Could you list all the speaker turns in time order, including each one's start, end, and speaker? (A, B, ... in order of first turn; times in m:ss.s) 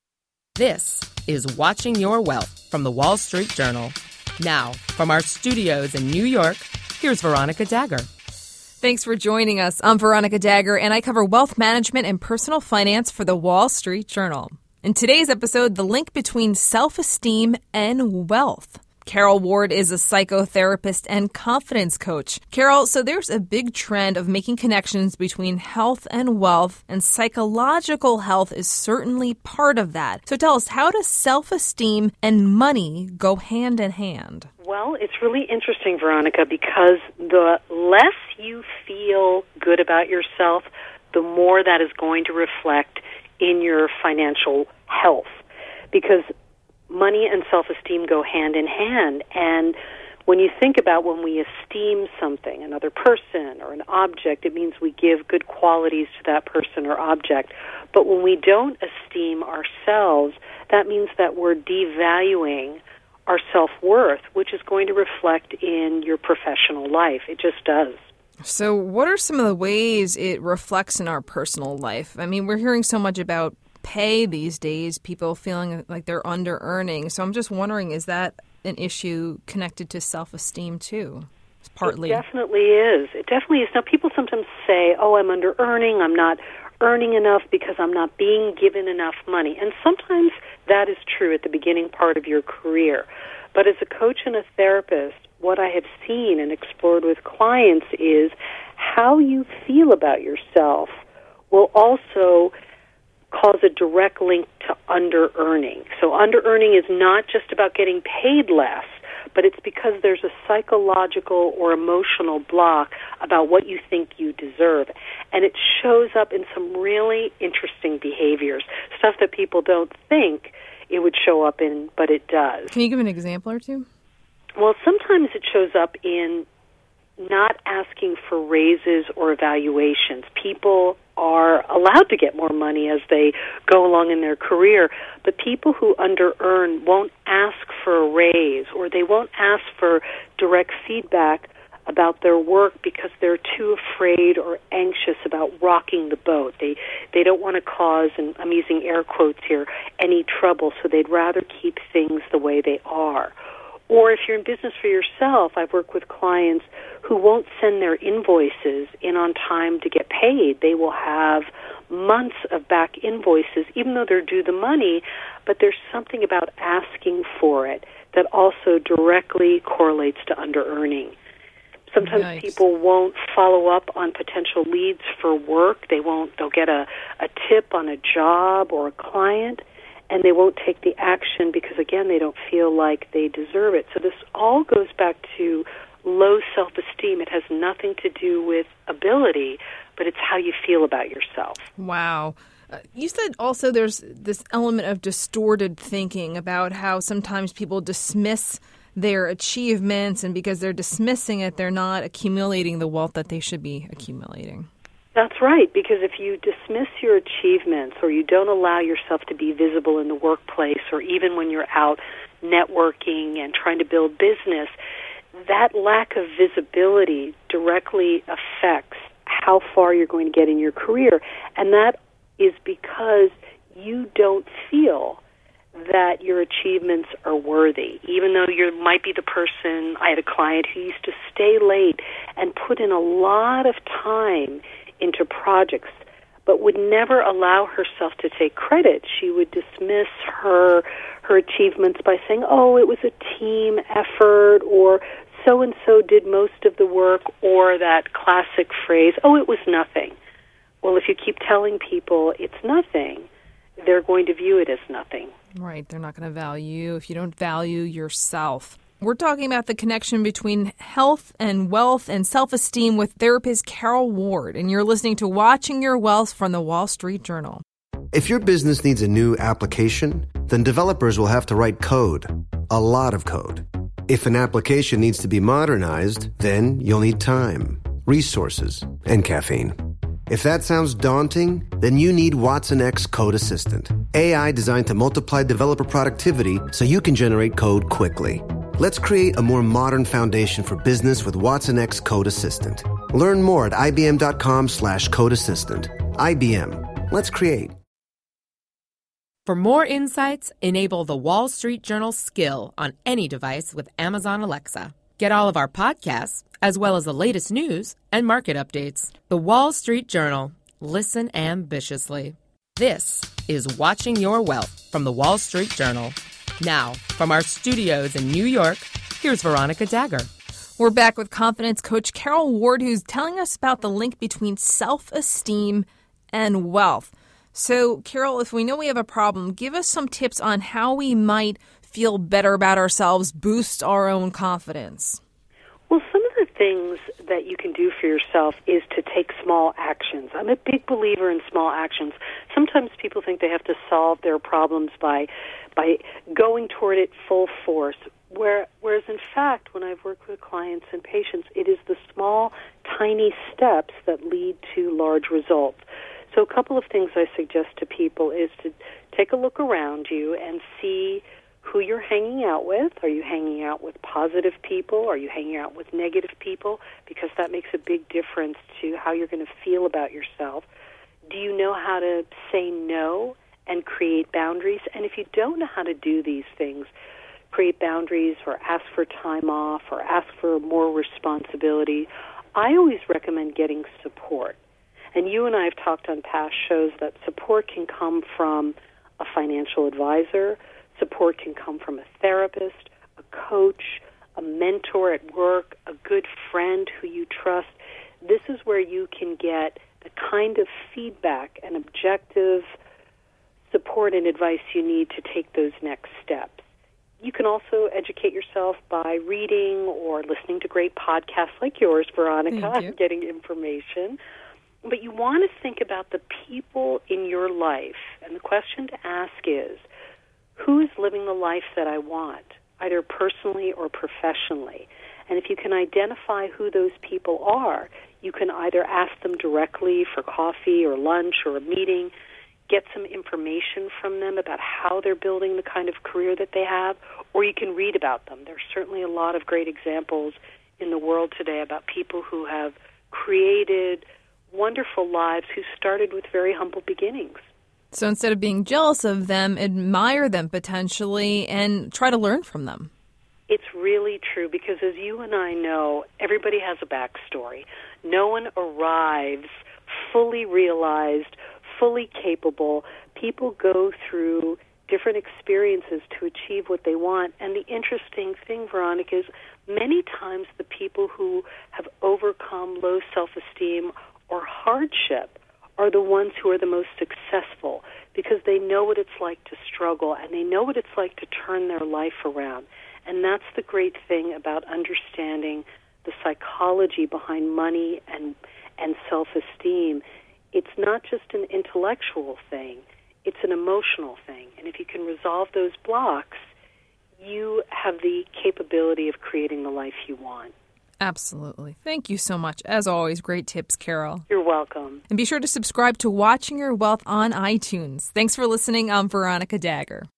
0:00.6-0:08.1 A
0:08.8-0:34.5 B
0:34.6-0:46.3 C
0:46.9-0:49.8 C
0:50.3-1:08.1 C
1:08.4-1:22.2 B
1:21.8-1:42.5 C
1:43.3-2:02.7 C
2:02.7-2:03.9 B
2:04.6-2:06.5 C
2:07.2-2:33.4 C
2:33.9-2:51.2 C
2:51.9-3:11.6 C
2:52.0-2:52.5 B
3:11.8-3:24.7 B
3:25.2-3:34.7 C
3:35.5-3:45.2 C
3:45.8-4:10.2 C
4:10.8-4:13.3 C
4:13.8-4:15.3 C
4:15.6-4:27.6 B
4:28.1-4:39.8 D
4:40.3-4:57.8 D
4:59.5-5:20.3 A
5:20.8-5:35.2 B
5:35.9-6:10.7 C
6:11.3-6:16.9 C
6:17.5-6:24.6 C
6:25.2-6:42.7 C
6:43.7-6:46.6 C
6:47.2-6:54.2 C
6:52.5-6:52.9 B
6:54.8-6:59.8 C
7:00.6-7:12.1 C
7:12.7-7:27.5 C
7:27.9-7:32.9 B
7:33.5-8:16.5 C
8:17.2-8:20.5 C
8:21.0-8:24.2 B
8:24.3-8:25.0 C
8:25.1-8:30.1 B